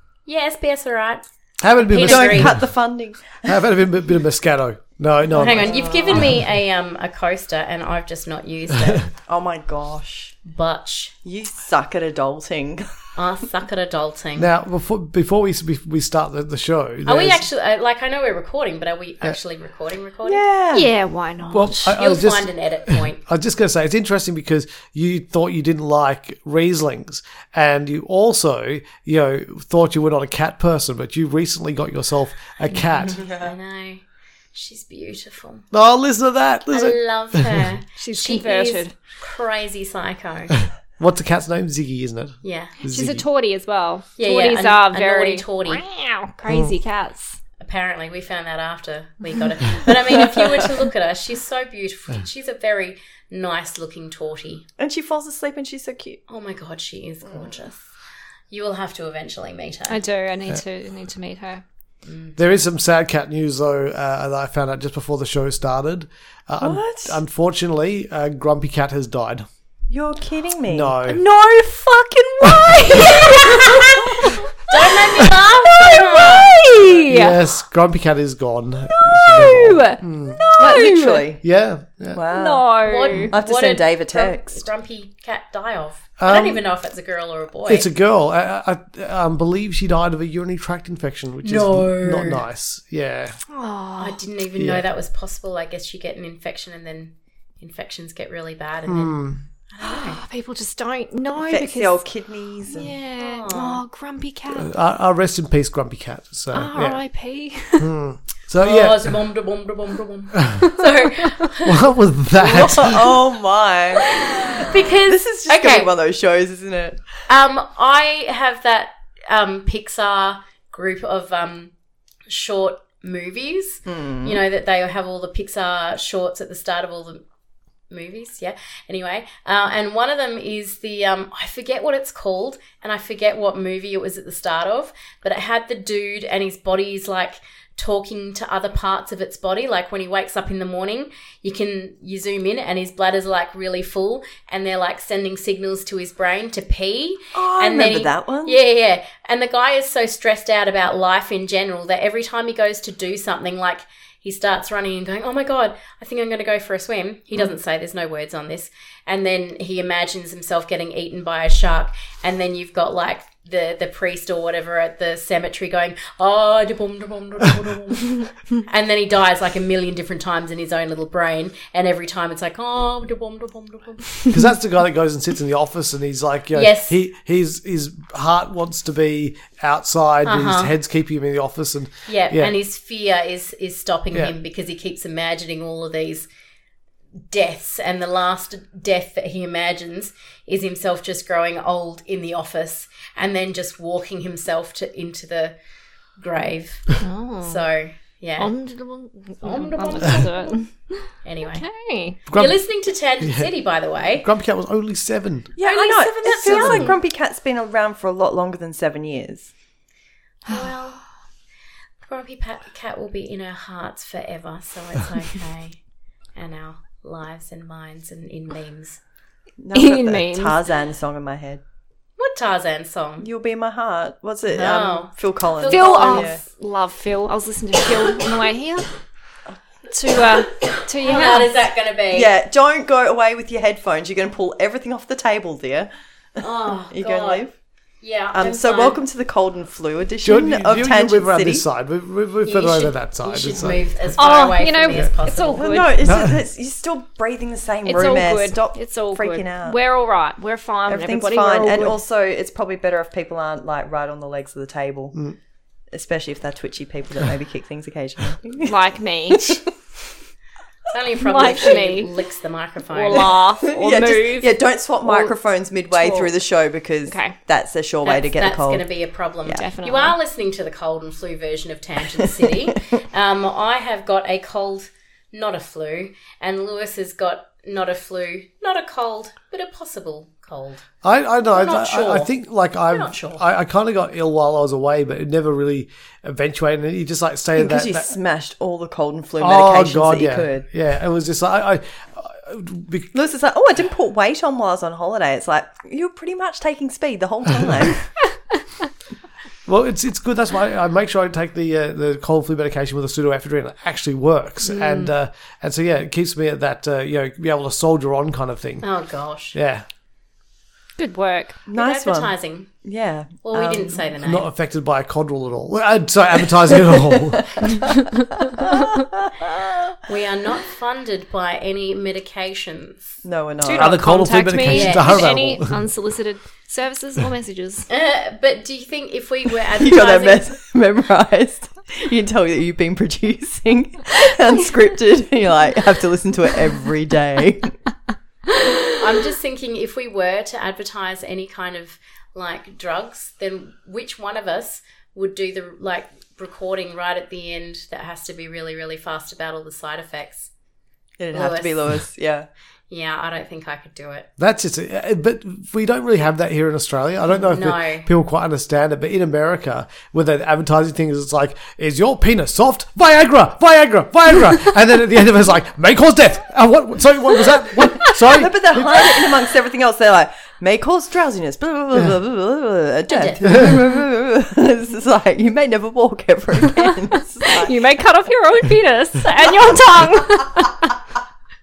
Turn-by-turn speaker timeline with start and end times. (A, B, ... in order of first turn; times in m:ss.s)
0:00.3-0:01.2 A
0:01.6-0:02.6 B
0:01.8-0:02.6 A
0:02.0-0:03.5 C
0:03.4-0:05.8 B
0:05.3-0:09.1 A
0:05.5-0:06.3 C
0:09.3-0:10.4 C
0:10.4-0:11.1 A
0:11.2-0:12.9 C
0:13.2-0:14.5 A
0:14.4-0:17.5 B
0:17.1-0:20.4 A
0:20.2-0:20.9 C
0:20.7-0:22.0 D
0:21.5-0:33.2 B
0:22.0-0:23.2 A
0:32.7-0:34.0 A
0:33.1-0:33.5 C
0:34.5-0:35.6 A
0:35.7-0:37.7 B
0:36.7-0:40.6 A
0:38.0-0:39.0 D
0:41.0-0:43.2 B
0:42.4-0:42.8 A
0:42.8-0:47.4 D
0:44.2-0:45.8 A
0:46.5-0:46.7 B
0:47.6-0:54.6 A
0:54.8-0:56.2 C
0:56.3-0:57.8 A
0:58.5-1:00.0 A
0:59.9-1:01.6 D
1:02.1-1:02.4 A
1:02.4-1:09.5 B
1:06.6-1:07.2 C
1:09.9-1:11.0 C
1:10.7-1:11.2 B
1:11.1-1:14.4 D
1:12.4-1:13.1 B
1:14.7-1:16.7 A
1:15.9-1:17.4 D
1:16.1-1:16.7 C
1:17.0-1:20.4 B
1:18.9-1:19.6 C
1:19.3-1:20.0 D
1:20.3-1:21.4 C
1:20.6-1:21.2 D
1:21.4-1:22.2 B
1:22.1-1:22.7 C
1:22.3-1:23.3 D
1:22.8-1:27.9 A
1:23.3-1:24.7 C
1:26.2-1:26.6 B
1:27.7-1:33.4 B
1:31.4-1:32.4 A
1:33.5-1:34.2 D
1:34.0-1:39.2 A
1:34.6-1:34.8 B
1:38.9-1:39.4 B
1:39.7-1:40.2 A
1:39.8-1:42.0 D
1:41.4-1:42.9 C
1:42.7-1:44.7 D
1:43.2-1:43.8 A
1:44.5-1:47.0 B
1:46.5-1:47.9 D
1:47.8-1:49.2 B
1:48.6-1:52.8 A
1:51.6-1:53.2 B
1:52.4-1:57.0 C
1:54.3-1:55.9 A
1:57.3-2:01.7 A
2:02.3-2:07.2 A
2:03.9-2:04.4 C
2:07.9-2:54.3 A
2:27.3-2:28.6 C
2:54.3-3:02.5 B
2:56.5-2:57.0 A
3:00.3-3:00.7 A
3:02.1-3:06.3 A
3:07.3-3:15.6 A
3:16.2-3:18.5 A
3:17.0-3:17.6 D
3:18.4-3:22.2 D
3:19.4-3:20.6 A
3:21.2-3:21.6 A
3:22.3-3:24.3 A
3:22.3-3:22.6 B
3:23.2-3:23.5 B
3:24.1-3:25.5 B
3:25.6-3:29.5 C
3:25.6-3:27.0 A
3:26.5-3:26.9 B
3:30.5-3:31.0 A
3:32.0-3:35.8 A
3:36.4-3:39.0 A
3:39.6-3:41.6 C
3:39.7-3:40.6 D
3:42.2-3:43.3 A
3:43.2-3:46.4 C
3:44.5-3:46.4 A
3:45.7-3:48.9 D
3:49.9-3:51.6 D
3:51.0-3:52.3 A
3:52.1-3:55.9 C
3:56.4-3:57.4 A
3:56.9-3:57.5 C
3:58.0-3:59.0 A
3:58.3-4:01.6 C
4:00.2-4:03.9 B
4:02.4-4:05.8 A
4:04.2-4:06.0 D
4:05.6-4:09.8 C
4:06.0-4:06.4 B
4:07.8-4:12.0 D
4:10.9-4:15.2 C
4:15.9-4:18.7 C
4:18.6-4:19.6 D
4:19.3-4:19.7 C
4:20.9-4:23.3 A
4:21.2-4:22.1 D
4:22.9-4:25.3 D
4:23.1-4:28.9 C
4:25.9-4:26.3 D
4:27.1-4:27.4 D
4:28.0-4:40.8 A
4:29.6-4:30.2 D
4:41.0-4:48.1 B
4:41.5-4:42.3 A
4:42.9-4:43.4 A
4:47.6-4:50.7 C
4:49.4-4:53.1 B
4:53.1-4:58.1 C
4:59.7-5:08.9 B
5:04.6-5:05.1 D
5:08.8-5:09.6 A
5:09.5-5:09.8 B
5:11.0-5:11.6 D
5:11.7-5:13.4 C
5:11.7-5:12.7 A
5:13.4-5:14.5 A
5:13.5-5:17.7 B
5:18.5-5:19.6 C
5:20.0-5:23.1 A
5:23.2-5:24.0 C
5:23.6-5:27.9 D
5:23.8-5:25.8 B
5:24.7-5:25.3 A
5:27.9-5:30.5 A
5:29.8-5:37.7 C
5:39.0-5:50.5 A
5:51.2-5:52.5 C
5:51.3-5:51.8 A
5:52.9-5:54.3 A
5:54.4-6:09.2 B
5:57.5-5:58.1 A
6:08.2-6:17.7 C
6:13.1-6:13.7 A
6:17.5-6:21.0 D